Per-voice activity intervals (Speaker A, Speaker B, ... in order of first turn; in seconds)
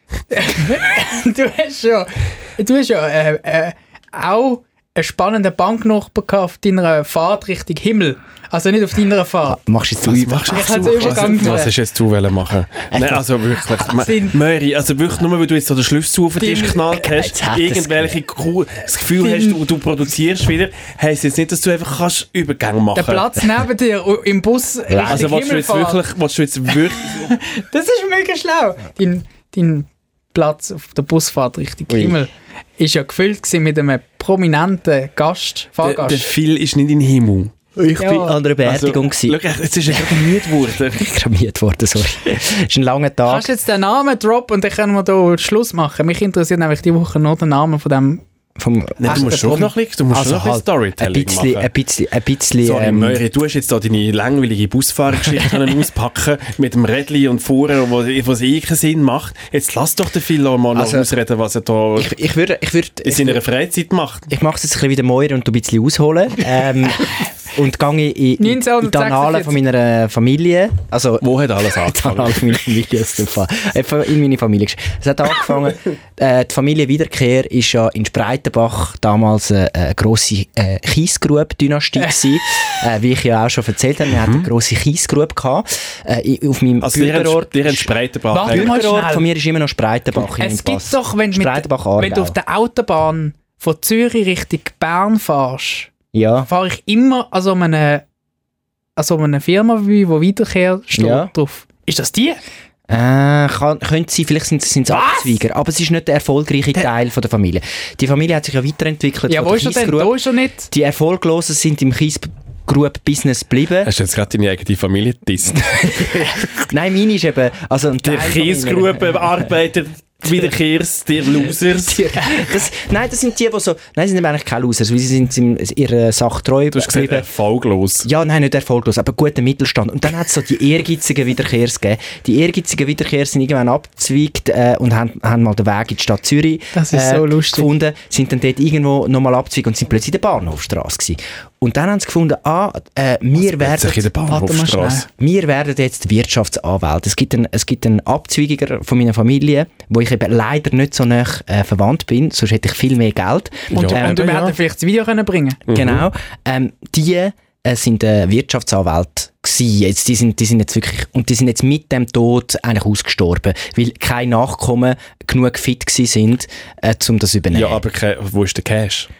Speaker A: 0.3-9.6, 10.5-11.7, 13.8-14.4, 16.4-16.8, 19.2-19.6, 22.9-26.0, 27.0-36.3, 38.0-38.4, 43.3-48.2, 49.1-49.6, 68.4-69.6, 88.3-89.3, 90.4-95.9, 96.5-98.0, 99.0-102.4, 104.9-105.3, 109.3-110.7, 136.7-137.7, 144.3-145.1, 153.7-155.6
Speaker B: 9.5-11.7, 12.9-13.2, 16.9-18.2, 24.9-25.3, 37.8-43.5, 48.6-53.2, 60.7-61.1, 62.0-63.4, 64.3-87.9, 88.5-92.4, 96.1-96.5, 100.9-101.3, 102.9-110.2, 110.7-113.9, 115.7-119.2, 121.9-127.3, 128.0-144.1, 145.1-154.5, 155.7-167.8
Speaker C: 10.0-23.3, 25.1-27.4, 35.8-37.5, 38.6-41.0, 49.0-51.7, 52.6-62.2, 63.0-64.3, 71.2-72.5, 84.2-84.5, 86.8-88.8, 113.8-116.4, 118.0-122.2, 126.7-128.1, 143.5-145.1, 153.7-154.5, 155.7-156.1, 167.5-169.1